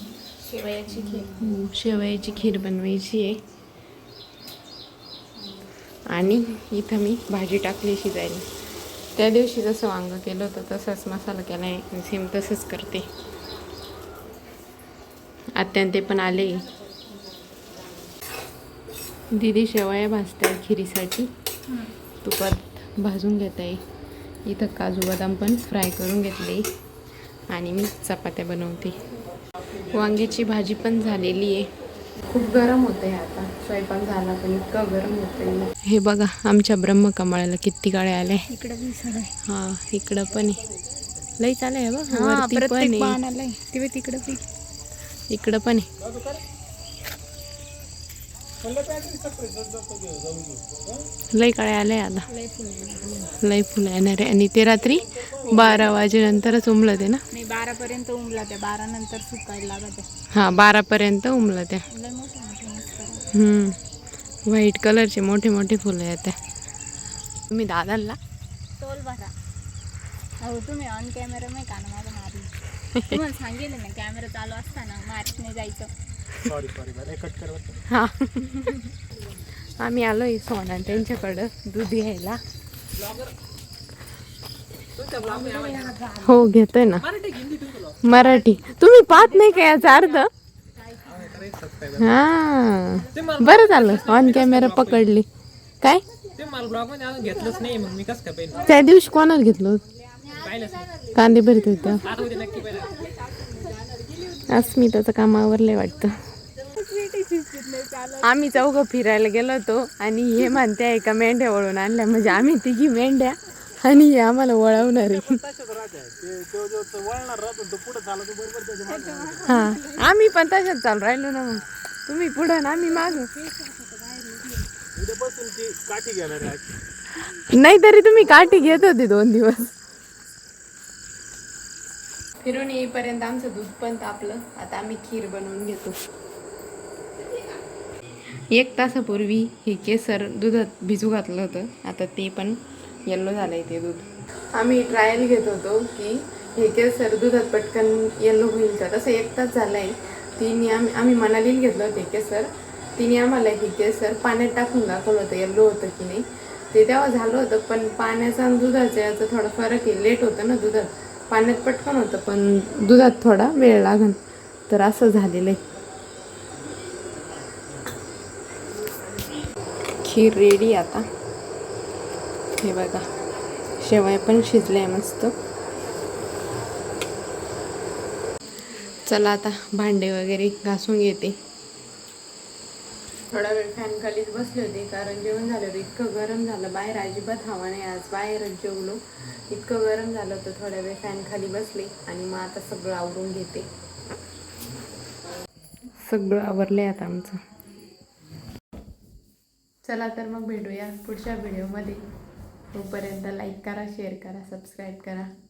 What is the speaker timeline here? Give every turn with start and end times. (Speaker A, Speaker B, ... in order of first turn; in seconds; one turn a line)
Speaker A: 0.3-1.6
Speaker B: 0.9-3.4
Speaker A: 5.4-5.7
Speaker B: 6.1-8.5
Speaker B: 9.2-13.1
Speaker B: 15.6-16.7
Speaker B: 19.3-21.3
Speaker B: 22.2-23.8
Speaker B: 24.4-26.7
Speaker B: 27.5-29.0
Speaker C: 29.6-31.4
Speaker B: 29.9-31.7
Speaker B: 32.3-38.5
Speaker A: 38.5-39.3
Speaker B: 39.5-40.6
Speaker B: 41.4-43.2
Speaker A: 42.1-44.4
Speaker B: 45.3-45.9
Speaker C: 46.0-46.5
Speaker C: 48.6-51.1
Speaker B: 51.3-52.3
Speaker A: 52.3-53.3
Speaker B: 53.4-57.2
Speaker C: 54.8-56.1
Speaker A: 55.6-55.9
Speaker A: 57.3-60.1
Speaker B: 60.3-61.9
Speaker A: 61.9-63.3
Speaker B: 63.3-63.8
Speaker B: 64.5-66.4
Speaker B: 67.5-68.2
Speaker A: 68.8-69.3
Speaker A: 70.4-72.5
Speaker B: 72.9-73.2
Speaker A: 73.0-75.9
Speaker C: 76.4-77.8
Speaker B: 77.9-78.9
Speaker B: 79.8-82.4
Speaker C: 80.9-81.4
Speaker C: 83.0-83.3
Speaker C: 85.0-86.0
Speaker A: 85.2-86.5
Speaker B: 86.2-87.1
Speaker C: 87.0-88.0
Speaker B: 88.0-90.3
Speaker A: 88.1-90.2
Speaker C: 91.0-92.2
Speaker B: 92.0-95.3
Speaker C: 93.1-95.1
Speaker C: 96.3-98.7
Speaker A: 98.5-98.8
Speaker B: 98.7-99.8
Speaker A: 100.2-104.8
Speaker C: 100.3-100.9
Speaker B: 101.1-102.0
Speaker C: 101.9-103.0
Speaker B: 104.5-106.2
Speaker A: 106.6-108.4
Speaker B: 108.2-115.4
Speaker C: 114.8-119.6
Speaker A: 118.9-120.2
Speaker B: 119.5-123.3
Speaker A: 122.7-124.7
Speaker C: 125.0-126.8
Speaker B: 127.3-129.7
Speaker B: 132.4-136.0
Speaker B: 138.5-165.6
Speaker B: 170.0-171.1
Speaker B: 172.6-173.1
Speaker B: 173.8-175.3
Speaker B: 179.1-181.4
Speaker B: 183.3-193.7
Speaker B: 196.0-197.4
Speaker B: 199.8-202.0
Speaker B: 202.7-205.3